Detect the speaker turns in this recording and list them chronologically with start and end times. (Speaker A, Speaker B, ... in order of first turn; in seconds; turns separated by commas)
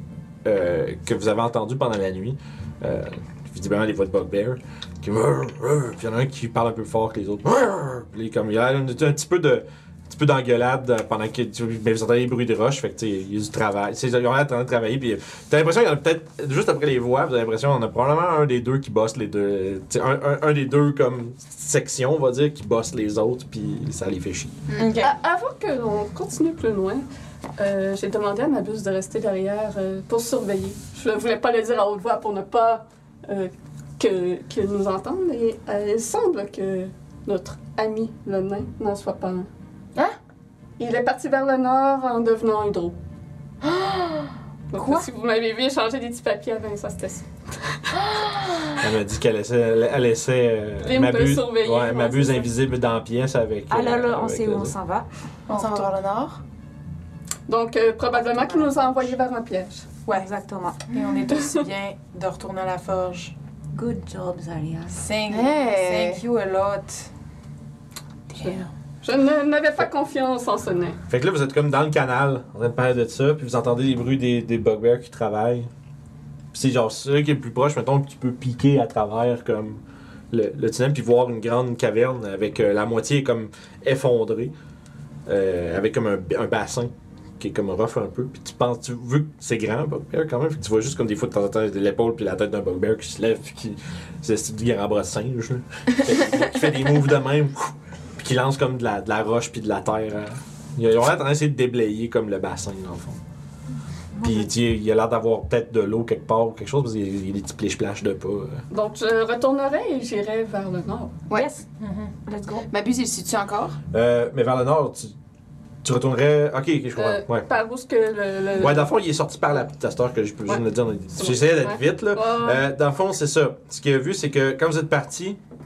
Speaker A: 0.4-24.6, Speaker B: 24.7-24.9, Speaker C: 24.7-25.1, Speaker D: 24.9-27.0, Speaker D: 27.6-39.5, Speaker D: 40.8-42.9, Speaker B: 43.6-45.0, Speaker D: 44.7-48.0, Speaker B: 48.0-48.8, Speaker A: 48.8-54.7, Speaker D: 50.8-52.5, Speaker E: 53.7-55.0, Speaker B: 55.5-56.4, Speaker C: 55.5-55.9, Speaker D: 57.5-59.9, Speaker E: 58.1-58.7, Speaker C: 60.0-60.3, Speaker E: 60.1-60.8, Speaker C: 60.9-63.3, Speaker E: 63.7-65.0, Speaker C: 64.9-67.1, Speaker B: 65.3-66.2, Speaker C: 68.4-68.6, Speaker D: 68.4-71.0, Speaker A: 71.1-75.7, Speaker A: 76.5-84.5, Speaker A: 85.2-103.2, Speaker E: 104.2-104.5, Speaker A: 104.2-108.6, Speaker D: 108.7-111.1, Speaker E: 111.3-111.6, Speaker C: 111.8-112.1, Speaker E: 112.2-112.7, Speaker B: 112.7-113.8, Speaker A: 113.9-115.1, Speaker A: 115.8-117.5, Speaker D: 117.0-118.9, Speaker A: 118.5-125.4, Speaker D: 121.1-122.6